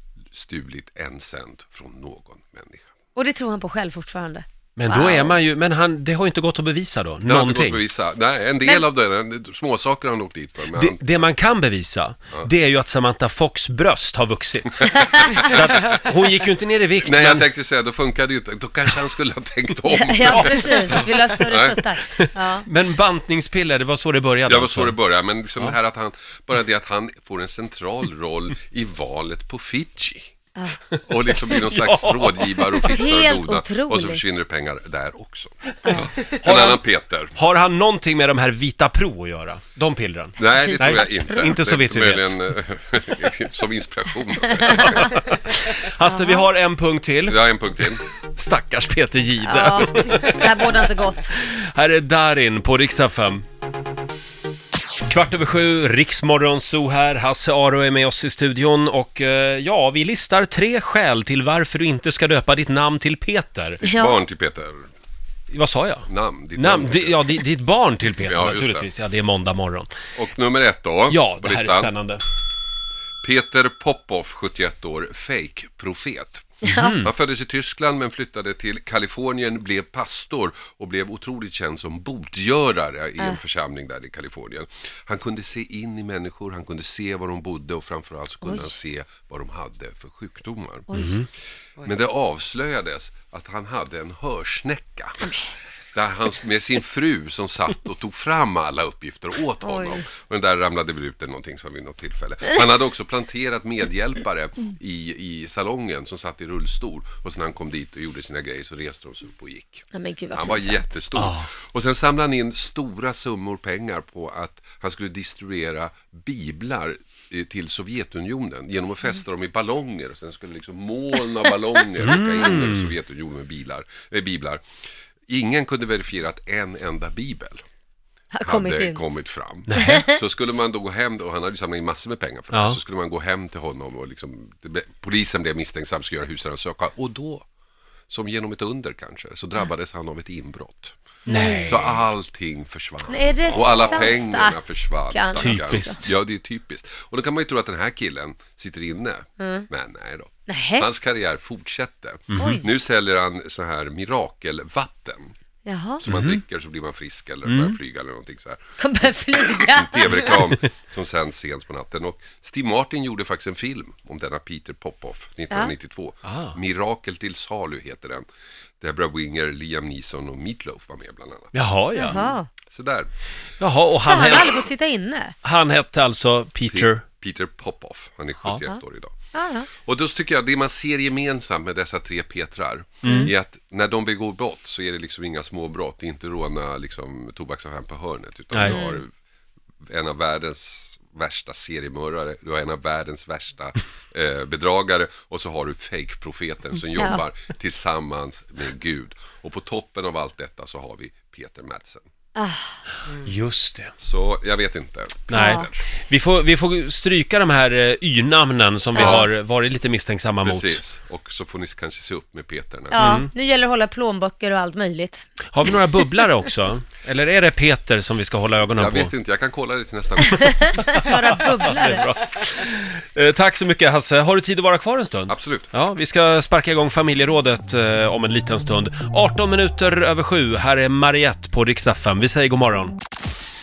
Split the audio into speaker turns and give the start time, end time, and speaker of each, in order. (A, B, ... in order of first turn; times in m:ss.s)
0:00.3-0:02.9 A
0:03.2-0:05.4 B
0:04.8-0:07.8 C
0:07.3-0:11.2 A
0:10.7-0:17.4 C
0:15.3-0:15.8 A
0:17.0-0:21.8 A
0:19.9-0:22.7 B
0:20.3-0:21.1 C
0:22.2-0:25.0 C
0:24.5-0:30.3 A
0:31.0-0:37.4 A
0:31.6-0:32.9 C
0:32.9-0:34.2 B
0:36.4-0:36.8 C
0:37.4-0:42.4 C
0:40.4-0:45.1 A
0:40.6-0:41.5 B
0:44.7-0:45.0 B
0:44.7-0:47.5 C
0:46.1-0:46.5 B
0:47.3-0:48.0 A
0:48.3-0:50.8 C
0:49.4-0:51.4 B
0:51.4-0:53.4 C
0:55.1-1:03.8 C
1:03.8-1:04.2 B
1:03.8-1:04.9 A
1:05.5-1:09.9 C
1:06.1-1:07.3 A
1:08.2-1:08.9 A
1:10.1-1:11.9 A
1:11.1-1:12.2 C
1:13.2-1:30.9 A
1:16.6-1:17.0 B
1:16.7-1:17.1 C
1:28.4-1:28.7 B
1:30.9-1:31.2 B
1:31.0-1:31.3 C
1:31.8-1:35.3 A
1:35.9-2:04.6 A
1:39.6-1:40.0 B
1:49.9-1:50.9 B
1:51.2-1:51.5 C
2:02.0-2:02.9 C
2:05.3-2:07.6 A
2:08.3-2:09.0 B
2:08.5-2:17.5 A
2:09.7-2:10.0 C
2:09.8-2:10.1 B
2:12.5-2:12.8 C
2:18.1-2:21.0 A
2:21.3-2:21.8 B
2:21.3-2:21.9 C
2:21.6-2:35.3 A
2:23.1-2:26.0 B
2:25.4-2:26.2 C
2:29.4-2:29.7 B
2:30.5-2:30.9 B
2:32.3-2:32.6 C
2:32.4-2:32.7 B
2:35.7-2:36.0 B
2:36.0-2:48.2 A
2:36.1-2:36.4 C
2:37.4-2:37.8 C
2:38.8-2:40.4 B
2:46.2-2:46.6 C
2:48.8-2:51.5 A
2:51.5-2:52.2 C
2:52.0-2:52.5 B
2:52.1-2:53.1 A
2:53.6-2:54.6 C
2:54.0-2:55.4 B
2:55.4-2:57.0 C
2:56.7-3:09.1 A
2:59.3-2:59.7 B
3:03.0-3:03.3 C
3:03.0-3:03.3 B
3:08.5-3:08.8 C
3:08.6-3:09.0 B
3:09.8-3:22.1 A
3:17.0-3:17.2 B
3:22.4-3:22.8 B
3:23.2-3:23.9 C
3:24.0-3:25.8 A
3:25.3-3:30.8 C
3:25.3-3:25.7 B
3:29.0-3:29.3 B
3:29.0-3:29.3 A
3:30.4-3:33.2 A
3:32.9-3:35.3 B
3:33.0-3:33.3 C
3:35.5-3:39.1 C
3:38.8-3:40.9 A
3:40.3-3:42.1 B
3:40.9-3:53.0 C
3:45.3-3:45.7 A